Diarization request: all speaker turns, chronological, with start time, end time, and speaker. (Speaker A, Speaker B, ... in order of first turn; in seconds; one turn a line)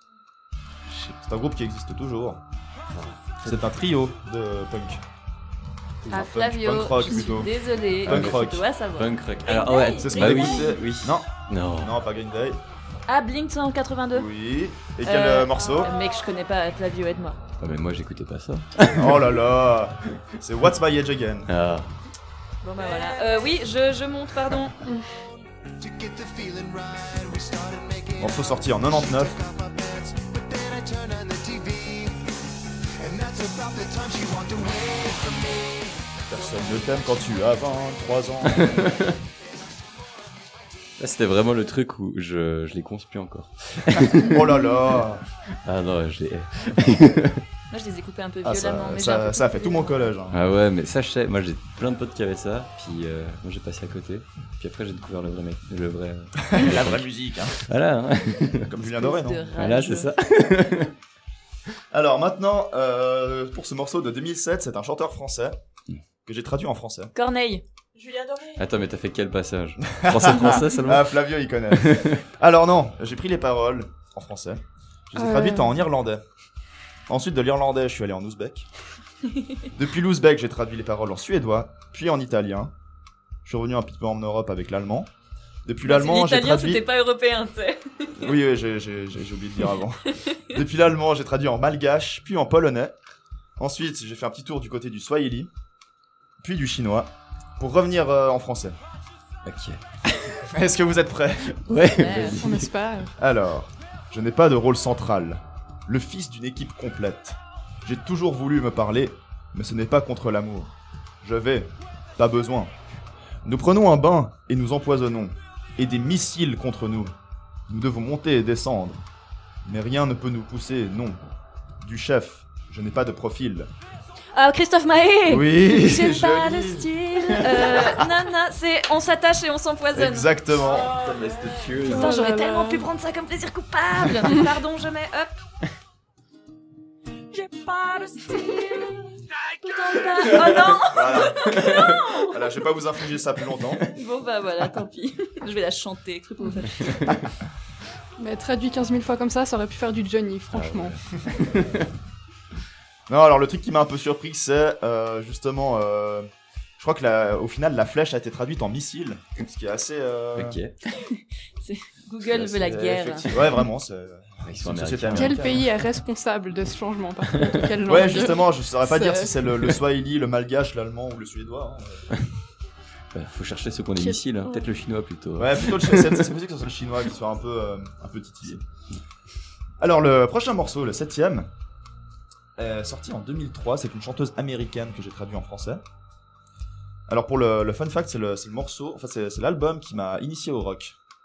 Speaker A: 0.9-1.1
Speaker B: 1.2-2.4
Speaker A: 2.9-3.7
Speaker B: 3.4-5.0
Speaker B: 6.0-7.5
Speaker C: 6.1-10.7
Speaker B: 8.0-8.6
Speaker A: 8.0-11.9
Speaker B: 10.0-12.6
Speaker C: 13.1-14.3
Speaker B: 14.1-15.9
Speaker C: 15.0-17.4
Speaker D: 15.6-16.4
Speaker A: 17.6-19.4
Speaker B: 18.9-21.5
Speaker A: 21.5-21.9
Speaker C: 22.6-24.8
Speaker D: 22.7-23.5
Speaker E: 24.8-25.1
Speaker B: 28.2-29.4
Speaker B: 36.3-38.7
Speaker C: 36.4-37.4
Speaker A: 38.5-39.1
Speaker A: 41.0-44.4
Speaker B: 44.2-45.2
Speaker A: 45.6-47.4
Speaker C: 47.7-50.1
Speaker B: 48.4-50.4
Speaker A: 50.3-57.1
Speaker B: 56.5-57.6
Speaker A: 57.6-58.7
Speaker B: 58.7-59.5
Speaker C: 58.8-60.1
Speaker A: 59.5-60.9
Speaker B: 61.9-65.6
Speaker B: 66.2-67.1
Speaker C: 67.1-67.6
Speaker D: 67.9-68.6
Speaker A: 68.6-71.2
Speaker B: 70.0-76.2
Speaker A: 71.7-72.2
Speaker E: 75.1-75.7
Speaker B: 77.1-78.7
Speaker B: 79.7-82.7
Speaker B: 83.4-85.1
Speaker B: 85.7-86.8
Speaker C: 85.8-88.1
Speaker B: 88.2-93.0
Speaker B: 93.6-95.5
Speaker B: 96.4-98.8
Speaker A: 99.4-100.5
Speaker B: 100.5-101.6
Speaker A: 101.5-102.7
Speaker C: 102.0-102.4
Speaker E: 102.4-103.1
Speaker B: 103.2-112.7
Speaker B: 113.4-117.1
Speaker B: 117.7-119.0
Speaker B: 119.6-121.2
Speaker B: 121.8-123.7
Speaker C: 124.3-130.5
Speaker B: 125.3-126.9
Speaker B: 127.4-128.1
Speaker B: 129.9-130.9
Speaker D: 130.7-131.6
Speaker A: 130.8-132.2
Speaker C: 131.9-135.3
Speaker E: 131.9-132.8
Speaker C: 137.4-138.8
Speaker C: 139.6-142.3
Speaker B: 140.9-141.5
Speaker B: 142.2-143.8
Speaker C: 143.9-147.1
Speaker E: 148.2-151.0
Speaker A: 150.5-151.8
Speaker B: 153.1-160.6
Speaker A: 160.3-160.8
Speaker C: 161.6-163.3
Speaker A: 162.3-163.5
Speaker B: 162.6-165.6
Speaker A: 164.4-165.7
Speaker E: 165.1-169.3
Speaker B: 167.8-172.1
Speaker A: 173.1-176.3
Speaker B: 175.4-178.6
Speaker A: 178.4-179.0
Speaker B: 179.8-181.5
Speaker B: 182.6-185.8
Speaker B: 187.1-190.9